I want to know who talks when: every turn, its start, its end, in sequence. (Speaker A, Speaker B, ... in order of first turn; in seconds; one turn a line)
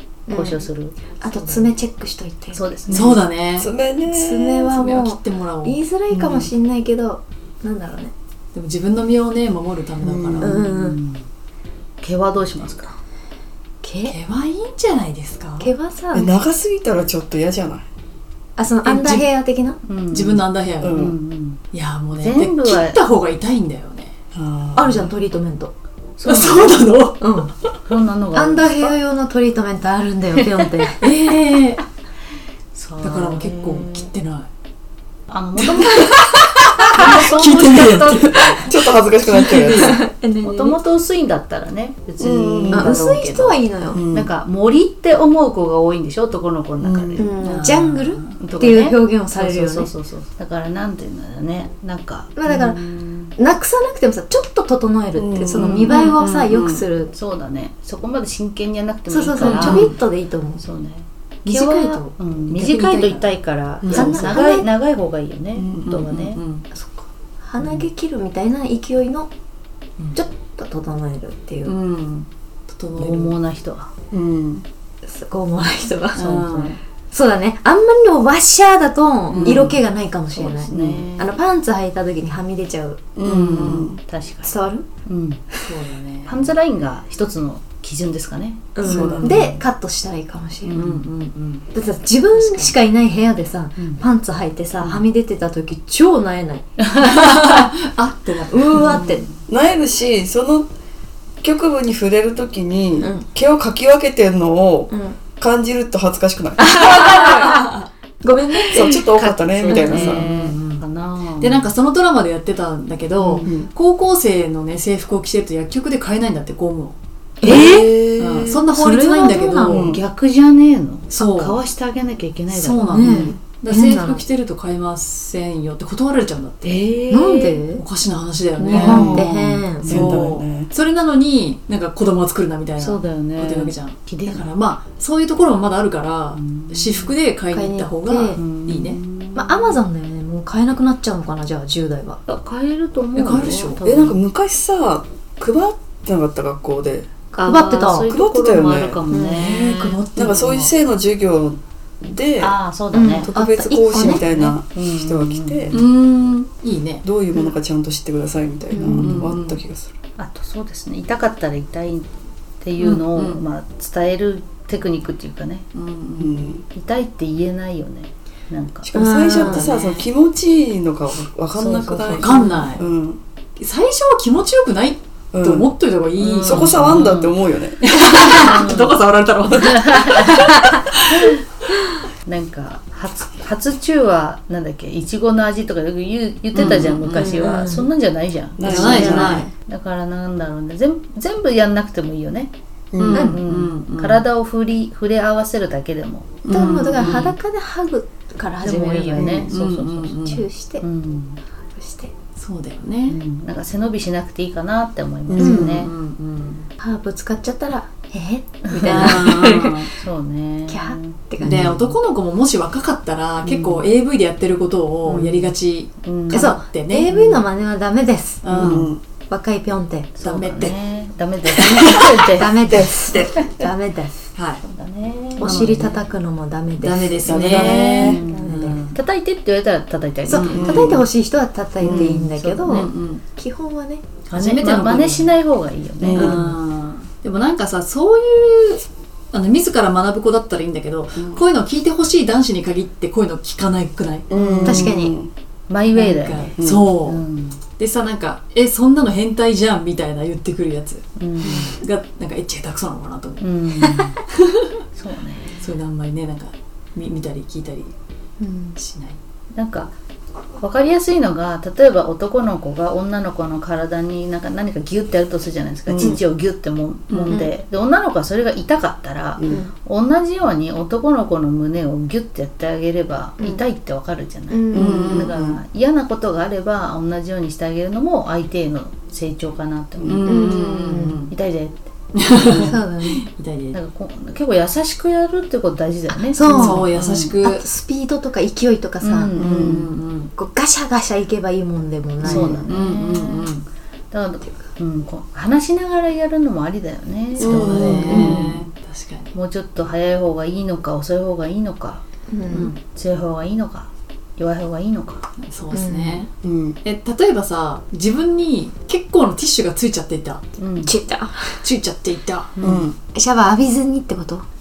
Speaker A: 0.3-0.7
Speaker B: 0.3-1.7
Speaker A: 1.2-2.7
Speaker B: 2.5-3.2
Speaker C: 2.9-3.7
Speaker D: 3.0-4.7
Speaker A: 4.0-8.1
Speaker C: 4.7-6.4
Speaker C: 8.5-10.6
Speaker D: 10.0-10.4
Speaker A: 10.4-11.0
Speaker B: 10.4-11.2
Speaker B: 12.0-12.9
Speaker A: 13.8-14.2
Speaker C: 14.1-15.7
Speaker A: 15.6-16.4
Speaker D: 16.1-17.9
Speaker A: 18.6-19.8
Speaker C: 18.8-19.2
Speaker B: 19.8-21.6
Speaker C: 20.1-21.0
Speaker D: 20.8-21.1
Speaker C: 21.7-24.1
Speaker B: 22.1-23.0
Speaker D: 24.3-25.1
Speaker A: 24.7-25.7
Speaker B: 26.2-26.8
Speaker C: 26.2-27.7
Speaker A: 27.2-27.5
Speaker B: 27.8-28.9
Speaker A: 28.3-31.0
Speaker C: 31.0-31.8
Speaker B: 32.7-34.1
Speaker C: 33.0-34.5
Speaker B: 35.3-36.2
Speaker C: 35.7-38.7
Speaker B: 36.9-39.8
Speaker D: 38.1-40.0
Speaker C: 39.3-40.0
Speaker A: 39.3-40.8
Speaker B: 40.4-47.3
Speaker D: 42.2-43.3
Speaker A: 42.7-44.0
Speaker D: 43.9-44.3
Speaker D: 46.8-47.3
Speaker A: 47.2-49.9
Speaker C: 47.4-48.4
Speaker B: 48.4-53.3
Speaker A: 52.4-52.8
Speaker A: 53.4-57.1
Speaker D: 55.1-55.8
Speaker B: 55.5-56.2
Speaker C: 55.9-56.5
Speaker D: 56.5-56.8
Speaker B: 57.1-59.9
Speaker A: 59.1-60.6
Speaker C: 59.4-59.9
Speaker B: 60.6-66.4
Speaker A: 61.5-62.0
Speaker C: 61.8-63.3
Speaker D: 63.8-64.2
Speaker A: 63.9-64.7
Speaker D: 65.5-65.8
Speaker C: 65.8-66.6
Speaker A: 66.7-69.3
Speaker B: 67.6-67.8
Speaker A: 70.1-71.7
Speaker C: 71.6-73.3
Speaker B: 73.0-73.9
Speaker D: 74.1-74.6
Speaker A: 75.0-76.3
Speaker C: 76.1-76.8
Speaker B: 76.2-76.7
Speaker A: 77.1-83.1
Speaker C: 79.3-79.8
Speaker B: 80.3-81.2
Speaker D: 83.2-84.0
Speaker B: 83.2-85.4
Speaker C: 83.2-83.8
Speaker A: 84.4-84.9
Speaker C: 85.6-86.5
Speaker B: 86.2-89.6
Speaker A: 88.7-90.7
Speaker D: 88.8-89.4
Speaker B: 90.6-91.1
Speaker C: 90.7-91.6
Speaker A: 91.7-96.7
Speaker C: 92.3-92.7
Speaker B: 93.8-94.0
Speaker B: 94.8-95.0
Speaker B: 96.8-97.5
Speaker C: 97.0-99.2
Speaker D: 98.5-100.7
Speaker A: 98.5-99.2
Speaker B: 99.0-99.3
Speaker D: 101.4-106.8
Speaker A: 103.0-103.2
Speaker A: 104.9-105.2
Speaker A: 106.6-110.1
Speaker C: 107.0-107.8
Speaker D: 108.7-110.2
Speaker B: 109.4-111.7
Speaker C: 109.9-110.8
Speaker C: 111.4-119.9
Speaker B: 113.2-113.5
Speaker D: 113.4-113.7
Speaker A: 117.4-117.9
Speaker D: 117.4-118.7
Speaker A: 118.7-119.8
Speaker B: 119.2-123.2
Speaker D: 119.7-120.0
Speaker C: 121.1-121.6
Speaker C: 122.5-126.9
Speaker A: 122.9-124.2
Speaker B: 126.6-127.6
Speaker A: 127.1-127.8
Speaker C: 127.7-129.3
Speaker A: 128.6-129.9
Speaker D: 128.7-130.7
Speaker B: 129.8-130.2
Speaker C: 129.8-139.0
Speaker B: 132.8-134.5
Speaker B: 136.3-137.1
Speaker A: 137.5-138.4
Speaker B: 138.3-139.8
Speaker A: 139.3-142.2
Speaker B: 142.3-144.2
Speaker C: 143.1-143.8
Speaker D: 143.8-147.1
Speaker A: 147.3-148.1
Speaker B: 147.4-150.0
Speaker D: 148.0-149.0
Speaker A: 149.1-149.4
Speaker C: 149.3-150.7
Speaker D: 150.1-155.8
Speaker B: 152.4-153.3
Speaker A: 152.9-154.2
Speaker B: 153.9-155.8
Speaker C: 155.7-157.0
Speaker D: 157.0-159.9
Speaker B: 158.8-159.3
Speaker C: 158.8-159.6
Speaker B: 160.2-165.7
Speaker C: 162.8-163.4
Speaker C: 165.7-166.3
Speaker D: 166.2-166.6
Speaker B: 166.7-169.0
Speaker D: 168.8-173.2
Speaker A: 168.9-169.7
Speaker C: 169.3-170.1
Speaker B: 171.6-172.7
Speaker C: 172.2-172.8
Speaker C: 173.6-177.1
Speaker D: 175.3-175.7
Speaker B: 176.2-177.3
Speaker D: 176.4-178.5
Speaker C: 177.8-181.4
Speaker B: 178.4-179.0
Speaker D: 179.3-179.8
Speaker B: 179.6-180.2
Speaker B: 181.1-181.4
Speaker B: 182.2-192.5
Speaker C: 186.5-187.4
Speaker A: 187.1-187.9
Speaker D: 188.6-189.4
Speaker C: 188.6-189.4
Speaker A: 188.7-189.5
Speaker D: 192.9-193.3
Speaker C: 193.0-194.2
Speaker A: 193.1-193.4
Speaker B: 193.1-197.3
Speaker D: 196.4-196.9
Speaker C: 196.5-197.3
Speaker A: 196.5-199.4
Speaker B: 198.6-200.3
Speaker D: 199.1-199.5
Speaker C: 199.5-200.4
Speaker A: 200.2-200.8
Speaker B: 200.8-201.4
Speaker A: 201.7-202.1
Speaker C: 202.4-203.2
Speaker B: 203.1-205.9
Speaker D: 205.3-205.7
Speaker A: 205.4-205.8
Speaker C: 205.4-206.7
Speaker A: 206.8-209.7
Speaker B: 208.7-211.9
Speaker C: 208.8-209.9
Speaker A: 210.7-211.6
Speaker C: 211.4-217.1
Speaker B: 213.4-213.9
Speaker B: 215.0-216.5
Speaker A: 216.3-218.4
Speaker B: 217.1-217.4
Speaker C: 218.4-218.9
Speaker D: 218.5-219.0
Speaker B: 218.5-218.9
Speaker A: 219.3-220.1
Speaker B: 220.1-223.2
Speaker C: 220.2-220.8
Speaker C: 221.5-222.2
Speaker A: 222.3-224.1
Speaker D: 222.7-223.1
Speaker C: 224.3-224.6
Speaker B: 224.6-225.9
Speaker A: 225.4-228.9
Speaker C: 225.4-225.9
Speaker C: 226.8-228.9
Speaker D: 227.2-228.0
Speaker B: 227.4-231.0
Speaker A: 230.3-234.1
Speaker C: 230.3-230.6
Speaker D: 230.4-231.1
Speaker D: 231.8-232.2
Speaker B: 231.8-232.9
Speaker C: 232.7-233.2
Speaker C: 234.3-235.3
Speaker B: 234.3-236.6
Speaker D: 236.0-236.4
Speaker C: 236.1-244.2
Speaker D: 244.3-245.3
Speaker B: 244.3-244.9
Speaker A: 244.6-245.1
Speaker B: 245.7-247.6
Speaker C: 245.9-247.2
Speaker D: 246.6-246.9
Speaker C: 247.8-253.5
Speaker B: 251.2-251.8
Speaker B: 253.4-254.2
Speaker A: 253.8-254.1
Speaker B: 254.9-255.6
Speaker C: 255.6-257.9
Speaker A: 258.4-258.8
Speaker C: 258.8-259.2
Speaker B: 259.5-259.9
Speaker B: 260.6-280.5
Speaker D: 265.9-266.2
Speaker C: 267.1-267.4
Speaker A: 274.5-275.2
Speaker D: 274.7-275.6
Speaker C: 274.8-275.1
Speaker C: 280.0-281.3
Speaker A: 280.2-281.2
Speaker B: 281.3-282.7
Speaker C: 282.1-283.8
Speaker A: 282.5-283.2
Speaker B: 283.7-287.4
Speaker A: 286.1-286.9
Speaker C: 286.5-287.6
Speaker A: 287.4-289.3
Speaker B: 289.0-289.9
Speaker C: 289.3-290.3
Speaker D: 289.4-289.7
Speaker A: 290.4-292.6
Speaker B: 292.2-293.5
Speaker C: 292.2-293.6
Speaker B: 294.1-298.6
Speaker C: 297.4-299.3
Speaker D: 297.4-298.4
Speaker B: 299.3-305.2
Speaker A: 302.3-302.7
Speaker C: 305.4-306.3
Speaker A: 305.7-306.2
Speaker D: 306.4-306.8
Speaker C: 306.8-310.4
Speaker B: 310.6-310.9
Speaker A: 310.8-311.6
Speaker C: 311.6-312.6
Speaker B: 312.6-312.9
Speaker D: 312.6-312.9
Speaker A: 313.1-314.4